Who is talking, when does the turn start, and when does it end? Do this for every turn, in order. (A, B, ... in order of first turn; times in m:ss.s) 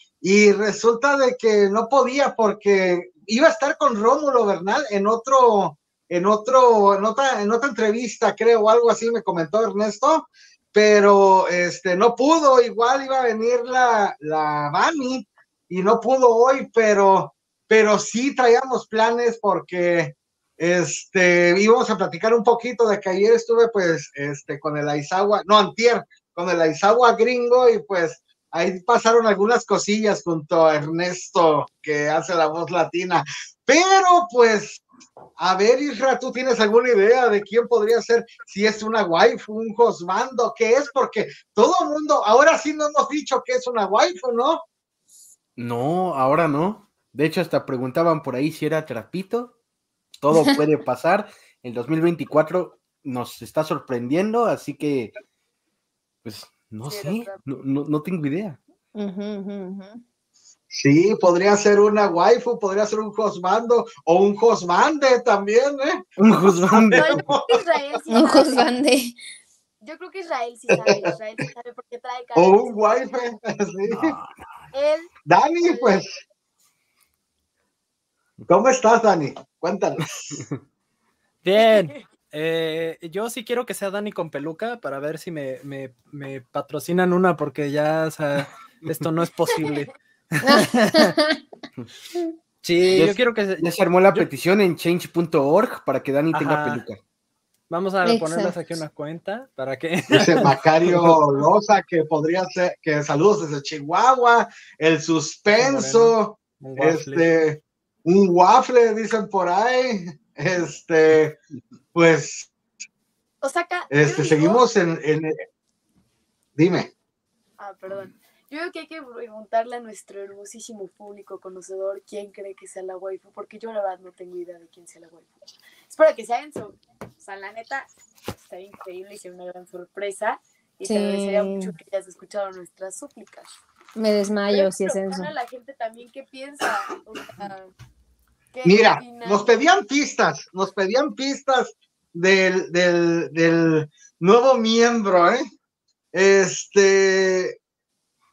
0:00.2-0:34.8 A
0:35.4-0:44.6 A
0:45.6-0:49.6 B
0:50.2-0:55.1 B
0:56.2-0:58.6 B
0:56.8-0:57.4 C
0:59.0-1:00.0 D
1:00.7-1:07.6 A
1:06.2-1:07.2 B
1:06.9-1:08.7 C
1:08.1-1:09.2 D
1:09.8-1:13.0 C
1:10.7-1:11.1 A
1:12.4-1:14.1 A
1:13.9-1:14.4 B
1:14.7-1:16.0 C
1:15.3-1:16.2 A
1:18.5-1:20.5 A
1:21.4-1:31.1 E
1:21.6-1:22.0 C
1:30.4-1:31.4 D
1:32.6-1:34.3 E
1:32.9-1:37.0 B
1:36.3-1:36.8 E
1:37.7-1:41.1 E
1:38.0-1:38.5 D
1:40.2-1:51.4 A
1:45.6-1:47.3 E
1:51.9-1:52.5 A
1:53.4-1:54.6 C
1:53.9-1:55.4 A
1:56.6-1:56.9 A
1:57.6-2:05.3 C
2:05.9-2:13.5 C
2:10.8-2:11.7 D
2:14.0-2:15.3 D
2:14.5-2:17.7 C
2:18.5-2:19.5 C
2:18.7-2:25.5 A
2:26.1-2:27.6 A